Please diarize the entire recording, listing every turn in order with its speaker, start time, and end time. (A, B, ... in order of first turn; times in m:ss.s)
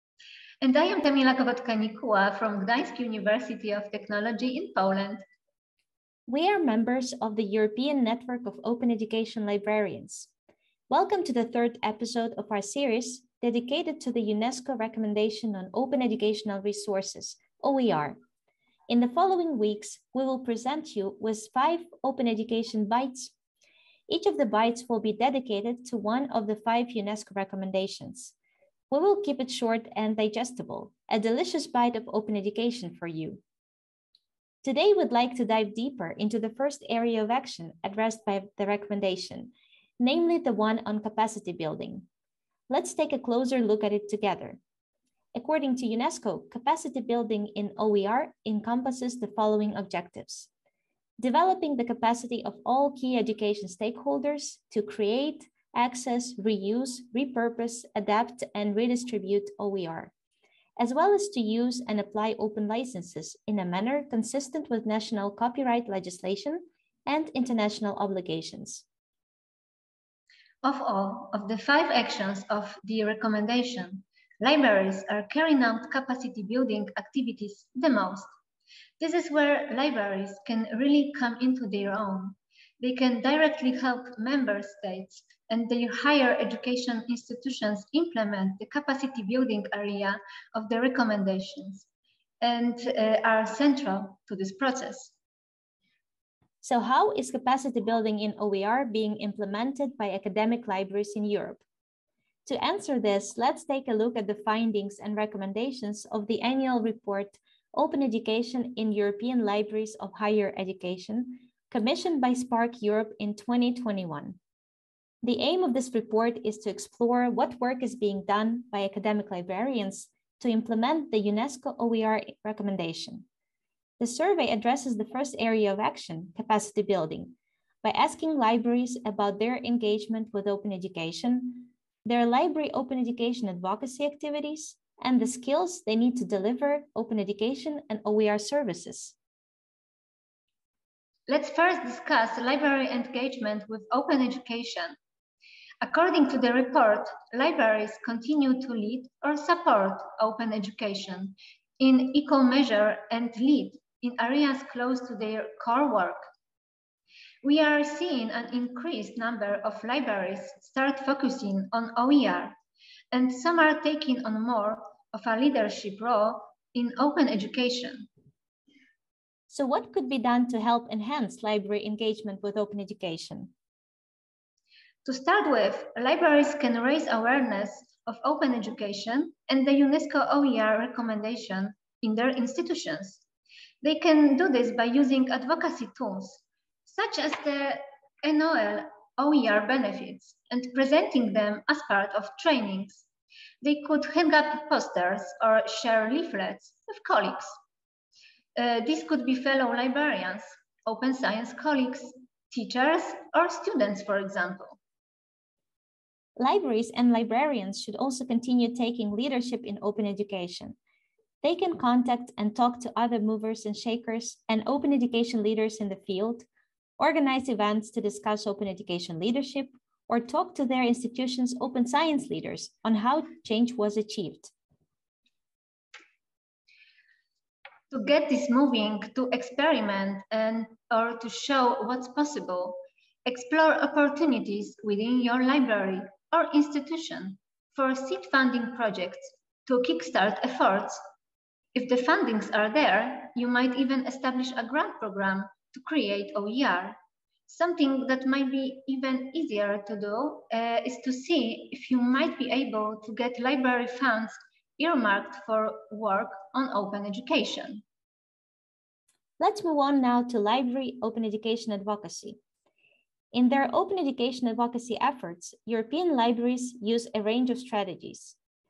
0:00.6-0:05.2 A
0:06.3-0:10.3 B
0:10.9-0:18.2 B
0:18.9-0:23.3 B
0:24.1-0:28.3 B
0:28.9-0:33.4 B
0:34.6-0:42.0 B
0:42.7-0:44.6 B
0:45.3-0:50.5 B
0:51.2-1:00.1 B
1:00.8-1:08.8 B
1:10.6-1:18.3 A
1:19.0-1:31.9 A
1:32.4-1:35.1 A
1:36.6-1:41.6 B
1:42.4-1:54.4 B
1:55.2-2:03.2 B
2:04.0-2:19.2 B
2:21.3-2:25.0 A
2:25.8-2:36.3 A
2:37.4-2:42.6 A
2:43.1-2:48.1 A
2:49.5-2:53.5 B
2:55.0-3:03.2 A
3:03.8-3:13.0 A
3:13.6-3:17.5 A
3:18.5-3:24.8 A
3:26.4-3:30.8 B
3:31.4-3:36.5 B
3:37.0-3:44.5 B
3:47.9-4:01.0 A
4:01.7-4:17.8 A
4:19.4-4:22.4 B
4:23.3-4:28.4 B